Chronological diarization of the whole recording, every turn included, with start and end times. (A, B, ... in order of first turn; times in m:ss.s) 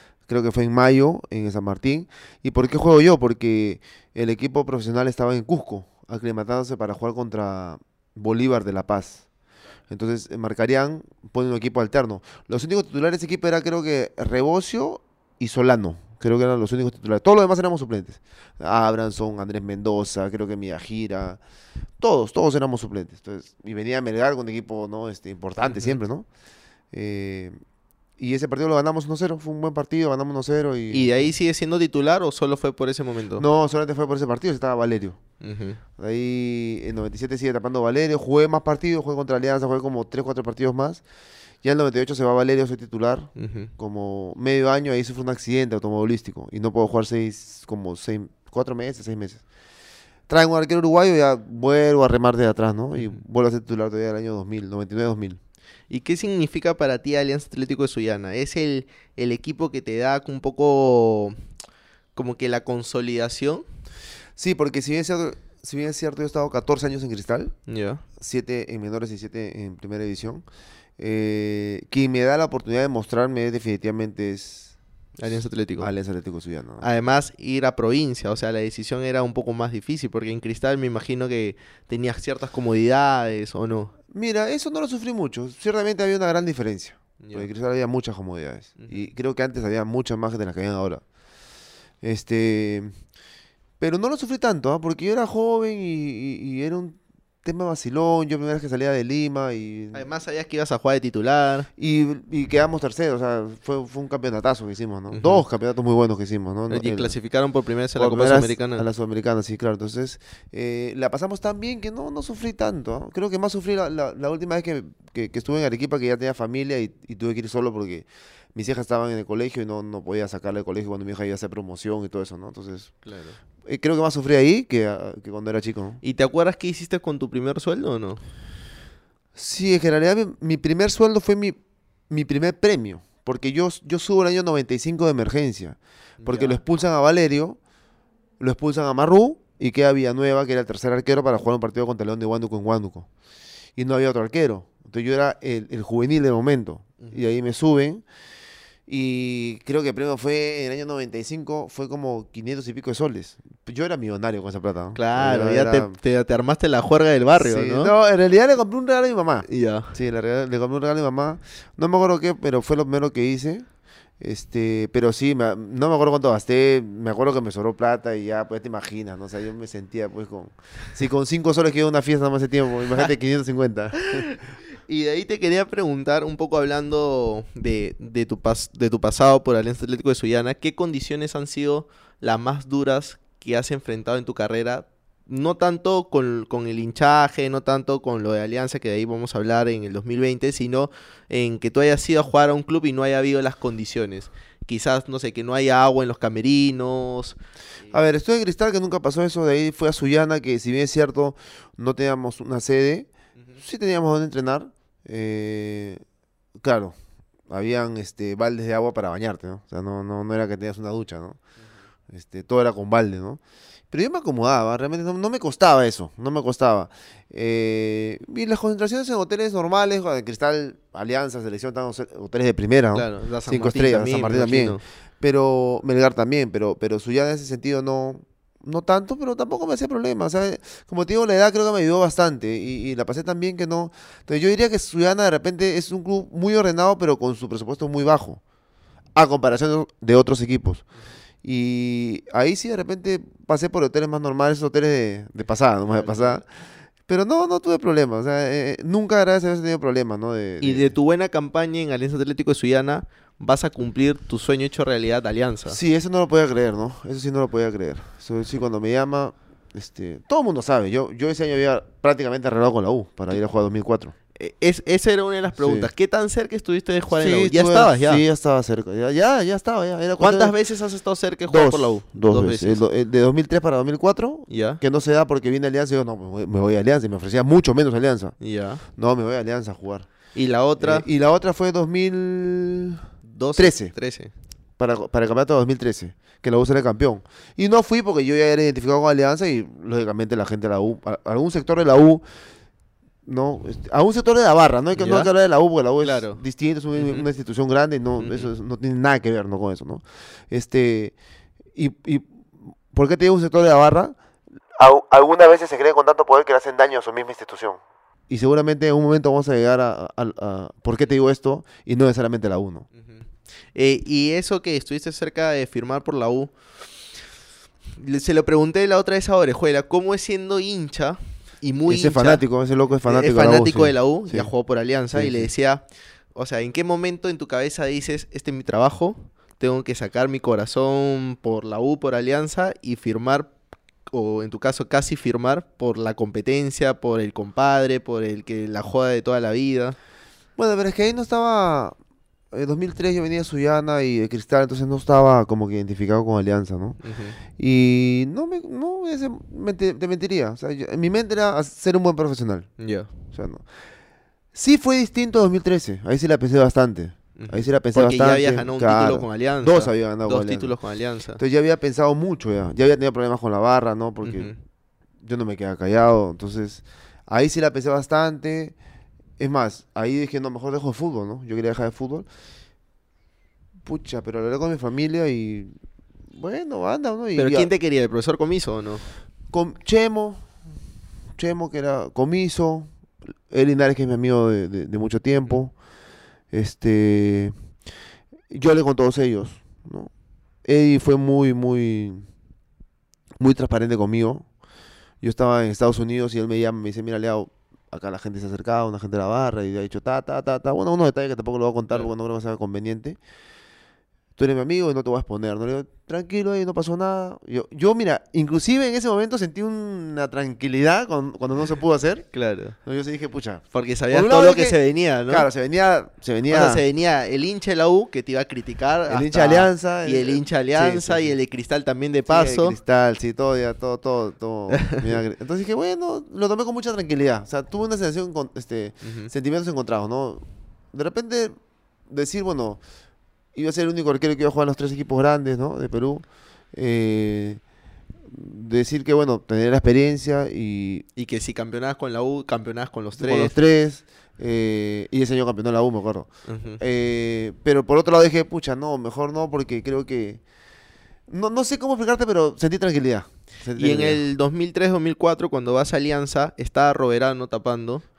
0:00.3-0:09.2 A
0:09.9-0:21.4 A
0:22.0-0:26.2 A
0:25.6-0:26.0 B
0:26.9-0:27.6 A
0:28.2-0:31.3 A
0:30.9-0:33.4 B
0:33.4-0:35.2 A
0:35.4-0:35.8 B
0:36.0-0:41.0 A
0:41.6-0:49.4 A
0:43.4-0:43.7 B
0:50.3-0:55.4 A
0:55.9-1:01.4 B
1:02.2-1:03.6 B
1:04.4-1:07.5 A
1:07.7-1:08.0 B
1:08.2-1:10.4 A
1:11.0-1:14.7 A
1:15.2-1:15.9 B
1:15.8-1:16.9 A
1:16.8-1:23.9 B
1:24.1-1:31.0 A
1:27.2-1:27.5 B
1:28.8-1:29.0 B
1:32.0-1:32.9 A
1:33.8-1:40.0 A
1:39.9-1:41.7 B
1:41.8-1:47.1 A
1:45.1-1:45.4 B
1:46.7-1:48.8 B
1:48.0-2:02.9 A
2:03.0-2:03.4 B
2:03.6-2:06.0 A
2:06.0-2:08.2 B
2:09.4-2:11.6 A
2:12.1-2:17.6 A
2:16.2-2:16.6 B
2:18.4-2:23.1 A
2:23.8-2:28.0 A
2:28.9-2:36.0 A
2:34.9-2:37.9 B
2:37.4-2:43.6 A
2:39.5-2:39.9 B
2:44.2-2:54.2 A
2:54.1-3:17.9 B
3:17.9-3:26.0 A
3:26.6-3:27.0 A
3:27.5-3:31.4 A
3:32.1-3:33.4 A
3:33.9-3:58.4 A
3:42.9-3:44.8 B
3:59.1-4:00.8 A
4:01.4-4:06.4 A
4:05.8-4:06.4 B
4:07.1-4:10.9 A
4:10.6-4:15.8 B
4:15.7-4:24.1 A
4:24.4-4:28.2 B
4:25.6-4:25.9 A
4:27.2-4:30.5 A
4:30.2-4:32.8 B
4:31.5-4:38.3 A
4:34.5-4:34.8 B
4:38.4-4:38.8 B
4:39.0-4:40.1 A
4:40.3-4:41.0 B
4:40.8-4:43.0 A
4:43.2-4:44.3 B
4:43.6-4:43.9 A
4:44.8-4:52.2 A
4:53.2-5:01.1 A
4:55.0-4:55.3 B
4:56.0-4:56.4 B
4:56.9-4:57.3 B
4:58.2-4:58.5 B
5:01.7-5:04.2 A
5:04.8-5:12.9 A
5:13.0-5:16.5 B
5:18.0-5:22.4 B
5:21.9-5:24.5 A
5:23.0-5:25.8 B
5:25.1-5:25.5 A
5:26.3-5:33.5 B
5:34.1-5:40.0 B
5:40.6-5:42.0 A
5:42.5-5:47.0 A
5:47.0-5:47.4 B
5:47.6-5:52.7 A
5:52.8-5:53.1 B
5:53.3-5:53.6 A
5:54.5-6:00.7 A
5:57.4-6:01.4 B
6:01.4-6:04.5 A
6:04.2-6:04.6 B
6:05.2-6:08.8 A
6:09.4-6:12.3 A
6:13.8-6:15.7 A
6:16.3-6:17.7 A
6:17.4-6:19.0 B
6:19.5-6:20.5 A
6:21.4-6:22.9 A
6:23.5-6:25.7 A
6:26.5-6:27.5 A
6:28.5-6:30.1 A
6:30.6-6:32.3 A
6:33.4-6:34.4 A
6:35.2-6:43.2 A
6:44.4-6:52.2 A
6:52.3-6:52.8 B
6:52.8-6:54.8 A
6:53.7-6:55.4 B
6:55.3-6:56.8 A
6:56.5-7:02.8 B
6:59.1-7:01.3 A
7:02.3-7:11.5 A
7:04.7-7:05.0 B
7:09.0-7:09.3 B
7:12.1-7:12.8 A
7:13.5-7:17.6 A
7:18.3-7:21.0 A
7:21.2-7:23.5 B
7:23.2-7:26.3 A
7:26.5-7:26.8 B
7:26.8-7:30.4 A
7:31.3-7:34.2 A
7:33.8-7:38.0 B